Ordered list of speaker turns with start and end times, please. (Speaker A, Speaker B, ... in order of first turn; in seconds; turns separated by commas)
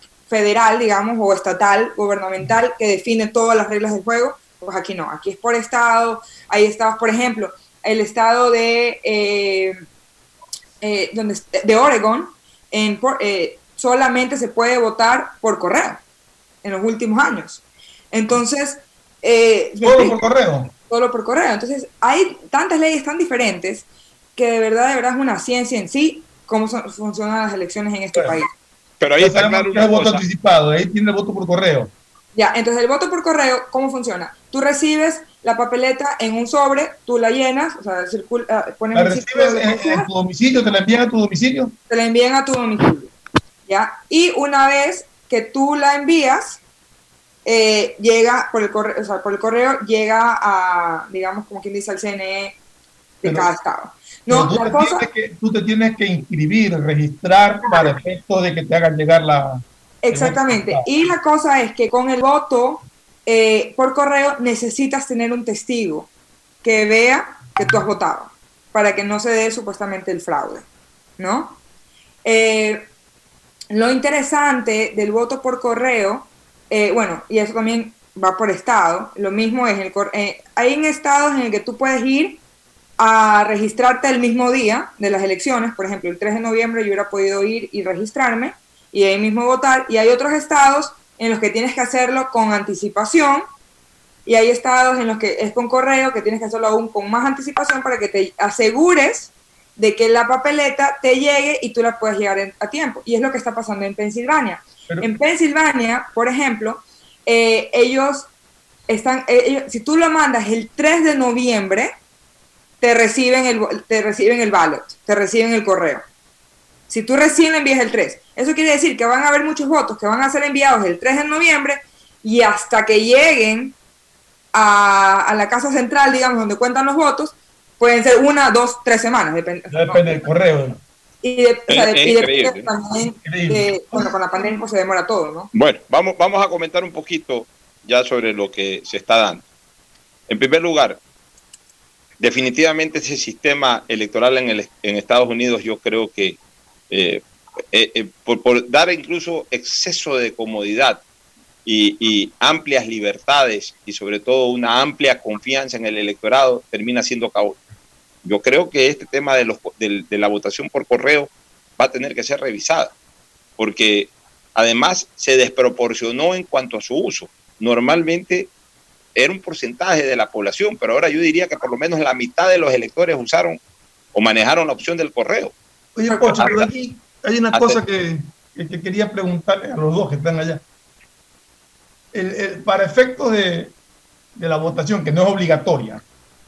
Speaker A: 0.3-9.8, Speaker A: 10.8-16.0, Speaker A: 16.6-20.2, Speaker B: 19.8-20.7, Speaker A: 20.9-28.5, Speaker C: 29.0-30.2, Speaker B: 29.2-31.9, Speaker A: 32.3-40.1, Speaker B: 38.9-41.7, Speaker A: 41.9-43.1, Speaker A: 43.6-46.6, Speaker A: 47.4-52.5, Speaker A: 53.2-55.1, Speaker B: 53.2-53.5, Speaker B: 54.3-60.9, Speaker A: 60.0-66.1, Speaker A: 66.6-70.7, Speaker A: 71.2-71.6, Speaker A: 72.2-72.9, Speaker A: 73.7-82.4, Speaker A: 83.0-93.4, Speaker A: 94.2-108.3, Speaker A: 108.9-111.9, Speaker A: 112.8-116.0, Speaker A: 116.9-123.7, Speaker A: 124.5-130.2, Speaker B: 129.7-130.8, Speaker A: 131.2-135.5, Speaker C: 131.7-132.7, Speaker B: 133.2-134.1, Speaker C: 135.5-139.4, Speaker C: 140.3-141.0, Speaker C: 142.2-146.4, Speaker C: 146.9-151.0, Speaker C: 151.7-157.6, Speaker C: 158.2-162.9, Speaker C: 163.6-168.5, Speaker C: 169.1-173.6, Speaker C: 174.1-175.5, Speaker B: 175.9-180.6, Speaker A: 176.1-176.6, Speaker C: 177.5-177.8, Speaker B: 182.1-183.7, Speaker B: 184.3-186.0